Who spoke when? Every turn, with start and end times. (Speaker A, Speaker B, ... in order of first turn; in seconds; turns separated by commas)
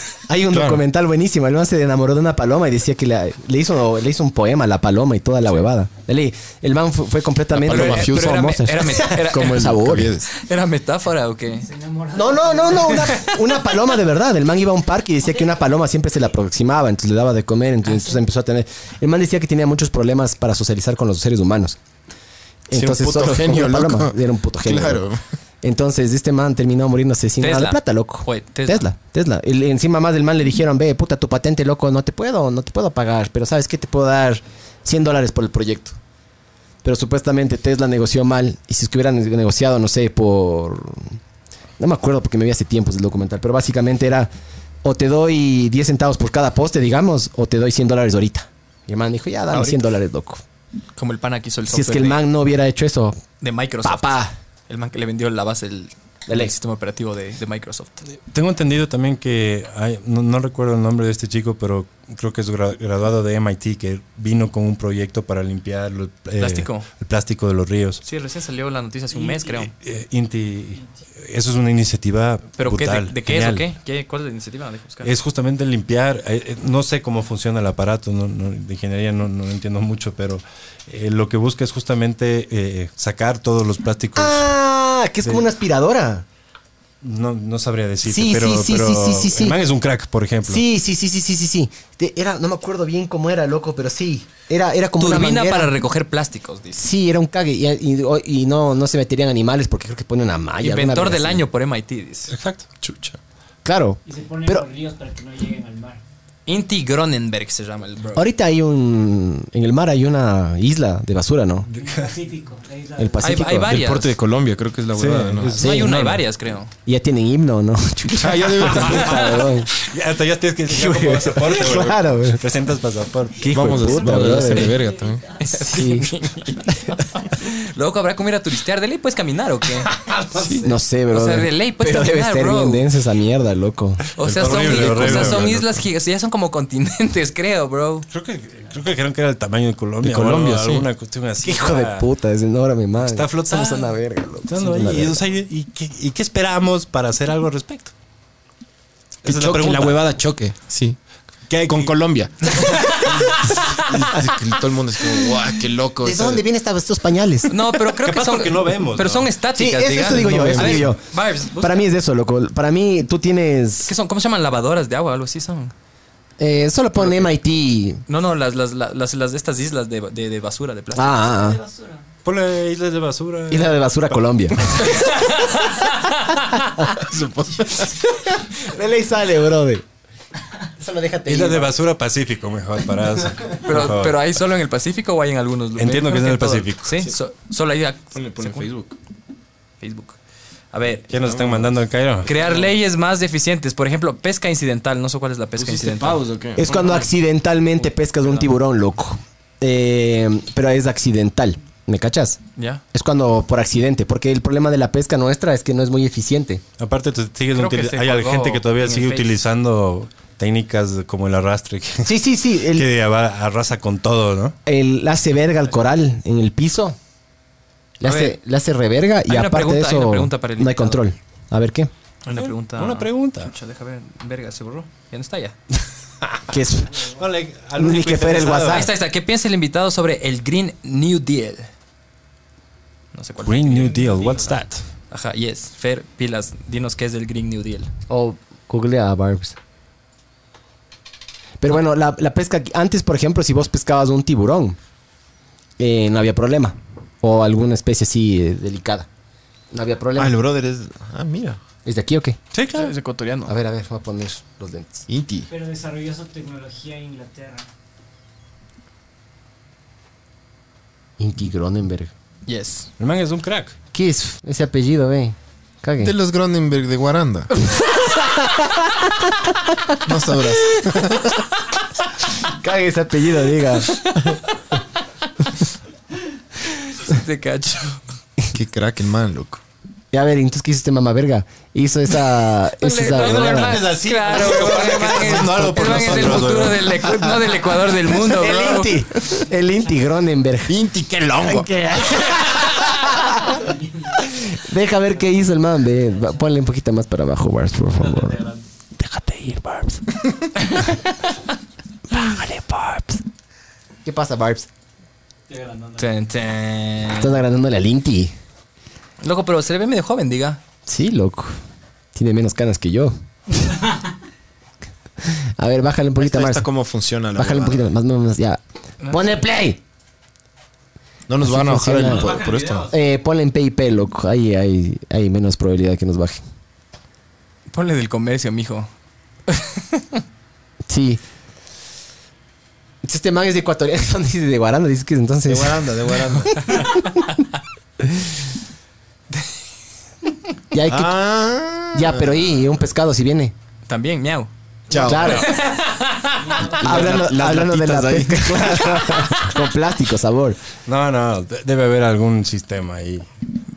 Speaker A: 0.3-10.1, Speaker B: 0.5-0.8, Speaker B: 7.5-10.3, Speaker C: 7.7-9.8, Speaker C: 10.3-11.7, Speaker D: 11.6-13.4, Speaker A: 12.1-21.8, Speaker A: 22.7-25.0, Speaker B: 22.7-25.2, Speaker A: 25.6-36.0, Speaker C: 27.4-28.9, Speaker A: 36.8-41.2, Speaker A: 41.8-44.3, Speaker A: 44.8-50.4, Speaker C: 49.5-49.8, Speaker C: 51.0-52.2, Speaker A: 51.7-53.2, Speaker C: 53.4-58.0, Speaker A: 53.8-54.3, Speaker A: 56.3-56.5, Speaker E: 58.2-68.0, Speaker C: 66.4-66.9, Speaker C: 68.0-69.7, Speaker E: 69.5-73.6, Speaker C: 72.6-75.1, Speaker E: 75.0-84.5, Speaker A: 84.2-86.2, Speaker E: 87.0-90.6, Speaker A: 88.0-89.6, Speaker A: 90.5-95.7, Speaker C: 95.0-96.8, Speaker A: 96.7-101.4, Speaker C: 100.6-102.3, Speaker E: 102.3-102.7, Speaker B: 102.7-103.2, Speaker A: 103.6-104.6, Speaker D: 104.0-106.0, Speaker C: 106.5-108.2, Speaker A: 108.2-111.7, Speaker D: 111.7-113.5, Speaker E: 111.7-112.1, Speaker A: 113.0-113.7, Speaker C: 113.2-114.1, Speaker B: 113.6-115.6, Speaker E: 114.9-116.2, Speaker C: 115.5-116.7, Speaker A: 115.6-116.2, Speaker A: 116.8-119.7, Speaker B: 118.1-119.4, Speaker E: 118.7-123.8, Speaker A: 120.7-122.4, Speaker D: 123.4-125.5, Speaker A: 123.4-124.8, Speaker B: 123.5-125.2, Speaker C: 125.4-129.9, Speaker A: 125.4-126.1, Speaker E: 129.9-130.6, Speaker B: 130.3-130.7, Speaker A: 130.6-134.0, Speaker C: 131.1-132.8, Speaker C: 134.1-138.1, Speaker B: 134.2-135.6, Speaker E: 134.2-135.8, Speaker E: 138.1-142.1, Speaker B: 140.0-140.9, Speaker A: 141.4-145.2, Speaker E: 143.0-143.9, Speaker E: 144.4-147.9, Speaker E: 149.2-150.0, Speaker B: 149.2-151.0, Speaker E: 151.5-152.0, Speaker B: 151.6-156.4, Speaker A: 156.0-157.5, Speaker C: 157.5-161.9, Speaker E: 158.0-159.3, Speaker A: 159.5-161.0, Speaker B: 160.1-160.8, Speaker A: 161.6-163.9, Speaker C: 163.8-165.7, Speaker A: 166.4-168.0, Speaker C: 168.1-171.3, Speaker A: 170.9-171.6, Speaker D: 171.3-172.0, Speaker E: 172.2-173.8, Speaker A: 173.5-175.0, Speaker C: 174.8-176.3, Speaker B: 176.9-178.0, Speaker A: 178.2-179.8, Speaker A: 180.8-181.7, Speaker E: 181.2-184.2, Speaker C: 183.6-188.7, Speaker E: 185.7-187.1, Speaker B: 188.1-188.9, Speaker C: 189.8-190.2, Speaker C: 190.7-191.1, Speaker E: 191.1-192.3, Speaker B: 191.2-191.7, Speaker C: 192.2-197.1, Speaker B: 192.3-192.7, Speaker B: 195.6-196.7, Speaker A: 196.6-202.4, Speaker C: 202.6-202.8, Speaker A: 202.9-206.6, Speaker E: 206.8-212.1, Speaker C: 207.5-209.4, Speaker A: 212.0-212.9, Speaker E: 212.7-214.6, Speaker A: 214.7-216.9, Speaker A: 218.0-221.9, Speaker C: 218.0-218.4, Speaker C: 219.3-221.0, Speaker C: 222.2-225.6, Speaker E: 222.3-223.5, Speaker A: 226.5-227.1, Speaker E: 227.1-228.9, Speaker A: 227.7-228.9, Speaker C: 228.6-231.7, Speaker C: 233.1-234.5, Speaker E: 233.4-234.8, Speaker C: 235.1-237.9, Speaker A: 238.1-239.6, Speaker A: 241.6-244.8, Speaker A: 245.8-249.1, Speaker A: 249.7-250.3, Speaker B: 250.1-251.6, Speaker A: 251.8-252.4, Speaker E: 252.5-252.9, Speaker C: 252.7-253.5, Speaker A: 253.5-255.0, Speaker B: 255.1-255.5, Speaker D: 255.5-257.7, Speaker A: 261.2-262.1, Speaker C: 262.4-262.9, Speaker E: 263.0-263.7, Speaker A: 263.9-266.1, Speaker B: 266.0-267.5, Speaker A: 268.1-270.0, Speaker B: 270.0-271.4, Speaker A: 272.4-274.3, Speaker C: 273.9-274.5, Speaker C: 276.6-278.0, Speaker B: 278.5-279.6, Speaker A: 280.1-283.8, Speaker C: 282.8-288.9, Speaker E: 283.1-287.4, Speaker A: 285.4-286.5, Speaker A: 288.1-290.7, Speaker D: 289.4-290.0, Speaker B: 290.7-291.7, Speaker A: 291.4-293.6, Speaker D: 293.2-296.5, Speaker A: 294.1-298.4, Speaker D: 298.0-298.6, Speaker A: 299.0-300.2, Speaker C: 300.7-300.9, Speaker A: 302.1-303.2, Speaker A: 304.0-304.7, Speaker D: 305.5-306.1, Speaker C: 306.0-307.3, Speaker A: 307.1-308.3, Speaker C: 309.2-310.6, Speaker A: 310.9-311.6, Speaker A: 312.1-313.1, Speaker A: 315.2-316.6, Speaker B: 316.2-317.9, Speaker A: 317.3-319.8, Speaker C: 319.0-319.3, Speaker B: 321.3-322.9, Speaker A: 321.4-326.4, Speaker D: 322.0-322.9, Speaker C: 327.7-328.9, Speaker C: 329.5-330.2, Speaker A: 330.9-331.2, Speaker A: 333.0-337.2, Speaker B: 335.5-336.6, Speaker A: 338.0-338.3, Speaker A: 340.7-341.2, Speaker B: 340.9-342.5, Speaker A: 341.9-343.5, Speaker C: 343.9-344.5, Speaker B: 344.9-345.5, Speaker A: 344.9-345.5, Speaker C: 345.0-346.7, Speaker D: 346.3-347.3, Speaker B: 346.6-349.4, Speaker A: 346.8-350.6, Speaker E: 350.9-353.3